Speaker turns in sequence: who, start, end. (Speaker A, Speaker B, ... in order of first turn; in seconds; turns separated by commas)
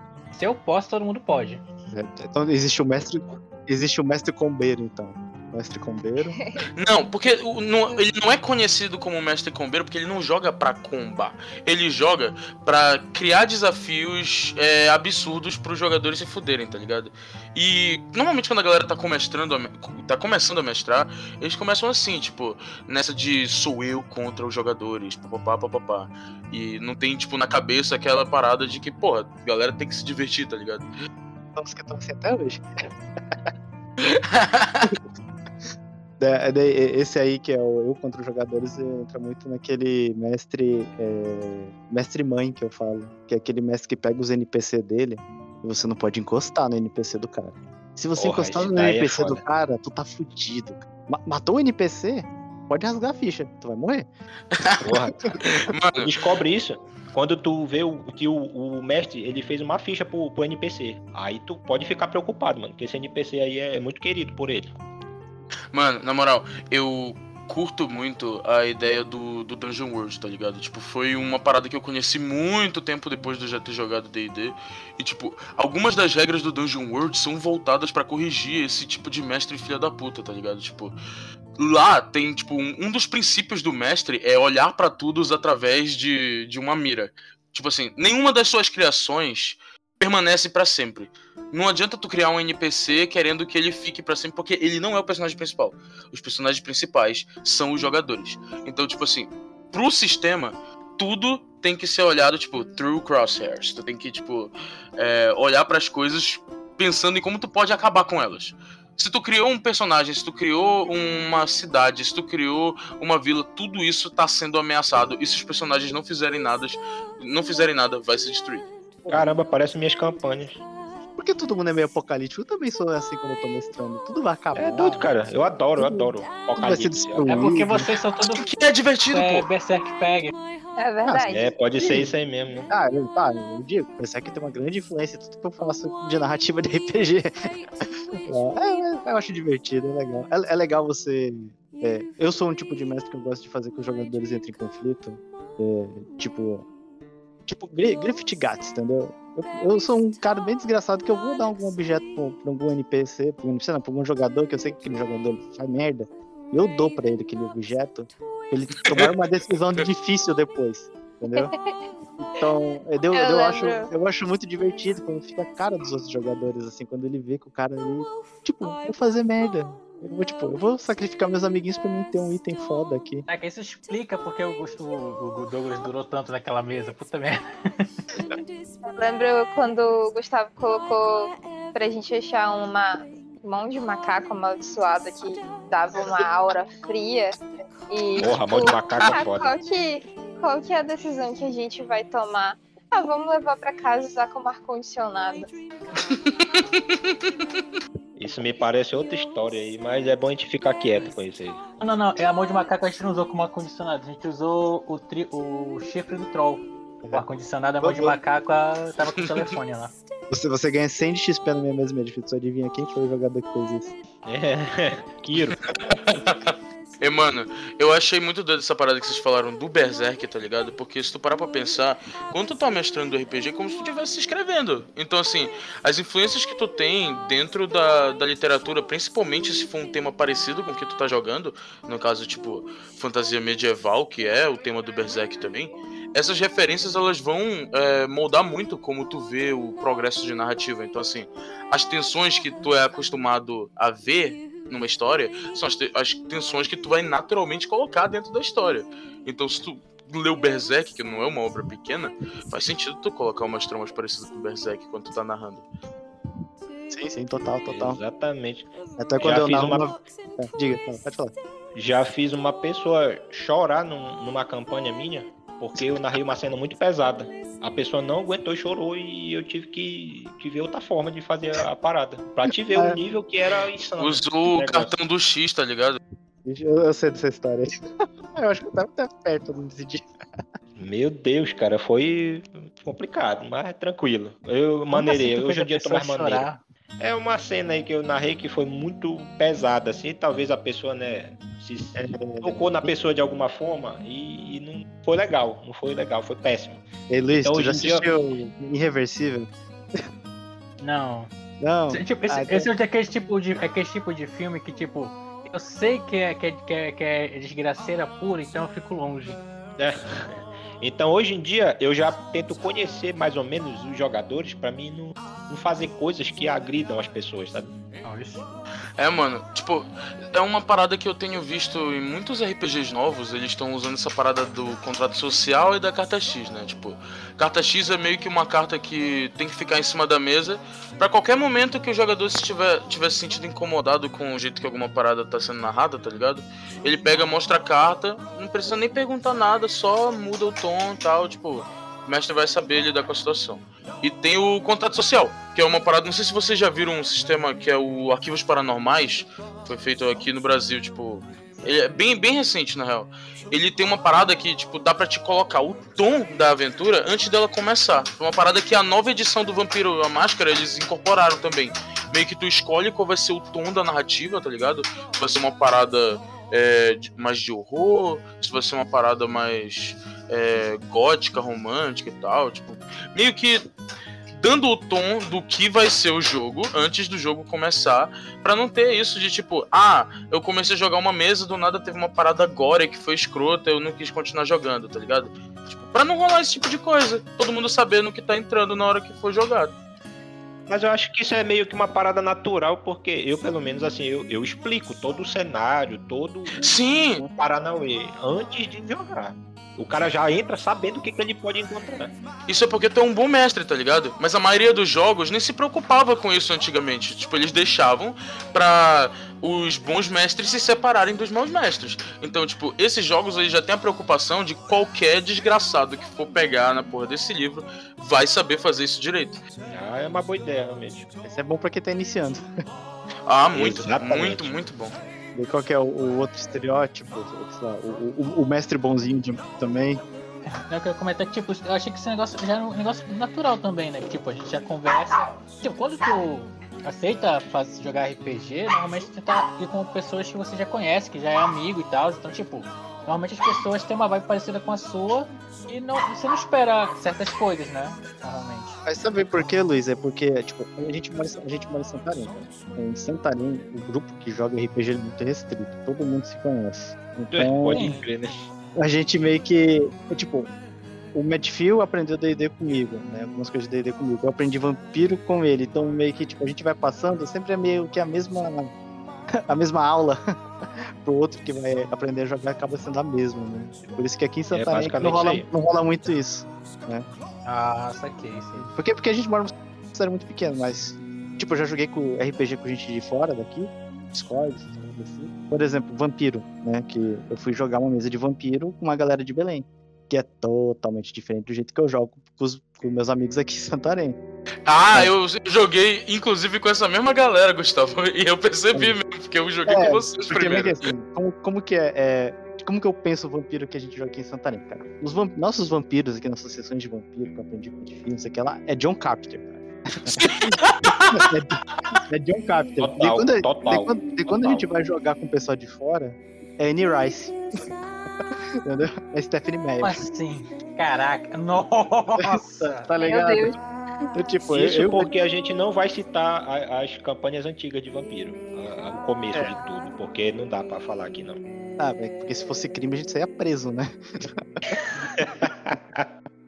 Speaker A: 0.3-1.6, Speaker B: 1.9-6.4, Speaker C: 6.3-6.6, Speaker D: 6.8-30.9, Speaker B: 31.6-32.6, Speaker D: 34.0-35.0, Speaker B: 36.2-54.1, Speaker E: 48.2-49.4, Speaker D: 54.5-54.9, Speaker E: 54.8-55.4, Speaker D: 55.5-56.1, Speaker E: 56.0-64.7, Speaker D: 65.7-81.0, Speaker D: 81.6-118.7, Speaker E: 119.1-120.6, Speaker B: 121.2-125.1, Speaker E: 124.5-127.6, Speaker B: 125.8-127.9, Speaker A: 127.3-128.5, Speaker D: 128.3-129.5, Speaker A: 129.1-130.3, Speaker C: 130.8-131.9, Speaker B: 131.1-132.1, Speaker E: 131.3-132.7, Speaker B: 132.7-137.3, Speaker B: 138.3-146.7, Speaker B: 147.5-161.5, Speaker D: 158.8-159.1, Speaker B: 162.2-173.3, Speaker C: 163.2-163.9, Speaker A: 173.3-177.9, Speaker C: 178.8-195.5, Speaker E: 188.2-189.5, Speaker D: 196.0-197.3, Speaker E: 198.2-201.6, Speaker A: 201.8-209.9, Speaker B: 207.8-208.2, Speaker B: 210.3-213.9, Speaker E: 214.2-215.6, Speaker D: 215.7-255.7, Speaker B: 256.9-258.0, Speaker E: 257.7-259.9, Speaker B: 259.0-261.3, Speaker E: 261.8-274.9, Speaker B: 272.7-273.0, Speaker D: 274.0-276.0, Speaker B: 276.4-277.7, Speaker B: 278.4-280.1, Speaker E: 280.8-286.5, Speaker A: 284.9-286.6, Speaker E: 287.0-298.1, Speaker B: 292.0-292.9, Speaker B: 297.1-300.0, Speaker A: 300.8-301.3, Speaker B: 301.6-302.7, Speaker A: 301.9-309.4, Speaker E: 309.8-317.7, Speaker A: 318.0-318.5, Speaker D: 319.0-373.6, Speaker D: 374.3-389.7, Speaker E: 390.7-396.6, Speaker D: 396.6-397.2, Speaker E: 397.4-402.1, Speaker D: 402.5-419.4, Speaker E: 419.7-421.1, Speaker B: 421.2-422.4, Speaker D: 423.3-424.9, Speaker E: 423.5-424.6, Speaker B: 425.4-430.0, Speaker A: 430.7-448.8, Speaker B: 448.9-457.9, Speaker E: 457.3-458.5, Speaker A: 457.7-458.0, Speaker B: 458.8-460.5, Speaker B: 461.1-468.7, Speaker B: 469.5-470.2, Speaker B: 471.0-477.1, Speaker E: 474.5-475.5, Speaker A: 477.4-478.7, Speaker B: 478.6-494.2, Speaker D: 494.7-500.9, Speaker B: 499.7-510.4, Speaker D: 510.2-511.3, Speaker B: 511.0-517.4, Speaker E: 512.8-514.7, Speaker B: 518.6-520.1, Speaker A: 519.8-522.9, Speaker B: 522.2-523.5, Speaker C: 523.0-523.6, Speaker B: 524.1-525.1, Speaker E: 524.5-531.4, Speaker B: 531.8-534.4, Speaker E: 535.1-536.1